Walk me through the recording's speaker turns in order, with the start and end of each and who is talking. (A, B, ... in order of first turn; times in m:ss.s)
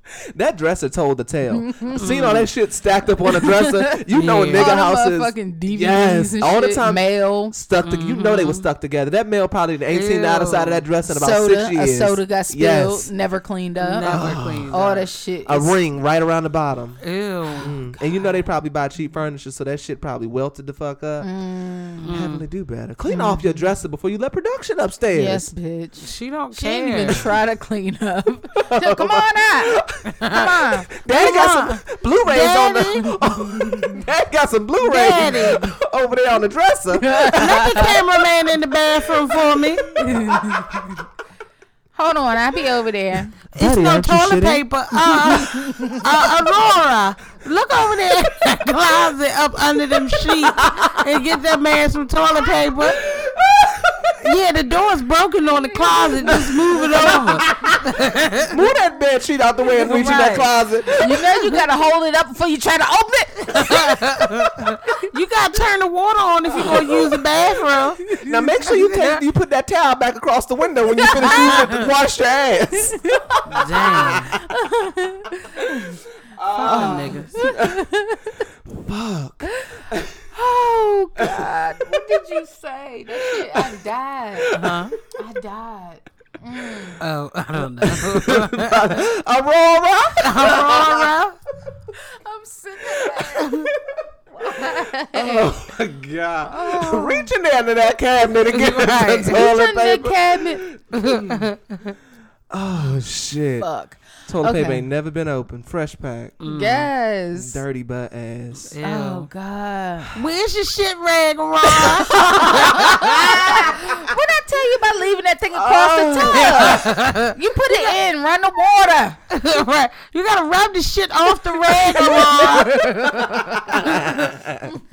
0:00.3-0:13.1 A
0:01.6-0:02.0 B
0:02.0-0:02.5 C
0:03.3-0:04.0 B
0:04.1-0:04.8 C
0:04.6-0:07.6 B
0:07.8-0:08.7 C
0:09.9-0:10.9 C
0:11.1-0:15.8 B
0:13.8-0:15.1 C
0:14.1-0:14.8 A
0:15.4-0:17.0 A
0:17.0-0:17.8 C
0:17.5-0:18.0 B
0:17.6-0:21.3 A
0:21.2-0:22.1 B
0:22.0-0:22.4 C
0:22.1-0:25.5 A
0:23.1-0:23.6 B
0:25.1-0:29.8 B
0:26.0-0:27.3 C
0:28.6-0:30.3 A
0:30.2-0:30.5 C
0:30.3-0:30.9 B
0:31.0-0:37.7 A
0:31.1-0:33.1 C
0:33.3-0:34.0 B
0:34.8-0:35.7 C
0:36.9-0:38.0 B
0:37.3-0:39.8 C
0:39.0-0:40.9 A
0:40.0-0:41.0 B
0:42.0-0:43.4 B
0:43.6-0:45.4 A
0:43.6-0:53.0 C
0:45.4-0:46.0 B
0:50.5-0:51.0 A
0:52.9-0:54.1 A
0:54.2-0:58.6 C
0:56.2-0:57.8 A
0:58.5-1:01.2 A
0:59.8-1:00.5 C
1:01.0-1:04.1 B
1:03.6-1:09.2 C
1:06.6-1:07.2 A
1:08.2-1:14.4 A
1:11.0-1:11.7 B
1:11.2-1:11.9 C
1:13.5-1:14.4 C
1:14.4-1:16.0 B
1:16.3-1:17.8 A
1:16.6-1:17.4 C
1:16.6-1:18.4 B
1:18.7-1:20.2 A
1:19.4-1:27.0 B
1:21.2-1:21.5 A
1:23.3-1:23.9 A
1:24.4-1:24.8 A
1:24.6-1:25.0 C
1:27.0-1:29.0 C
1:27.8-1:31.1 A
1:30.2-1:31.4 C
1:32.1-1:33.5 B
1:33.0-1:33.5 A
1:33.4-1:33.7 C
1:34.3-1:35.6 B
1:34.6-1:41.4 A
1:36.5-1:37.3 B
1:38.5-1:39.4 C
1:39.3-1:40.6 B
1:40.9-1:42.0 C
1:42.5-1:43.7 A
1:43.6-1:44.9 B
1:44.3-1:46.4 A
1:46.4-1:46.9 C
1:46.4-1:47.6 B
1:47.4-1:48.7 A
1:48.6-1:49.3 C
1:48.8-1:50.2 B
1:50.1-1:53.2 C
1:51.8-1:53.8 A
1:52.0-1:59.2 B
1:55.5-1:57.0 A
1:56.3-1:57.3 C
1:59.3-2:02.9 C
2:01.8-2:04.7 A
2:02.8-2:03.9 B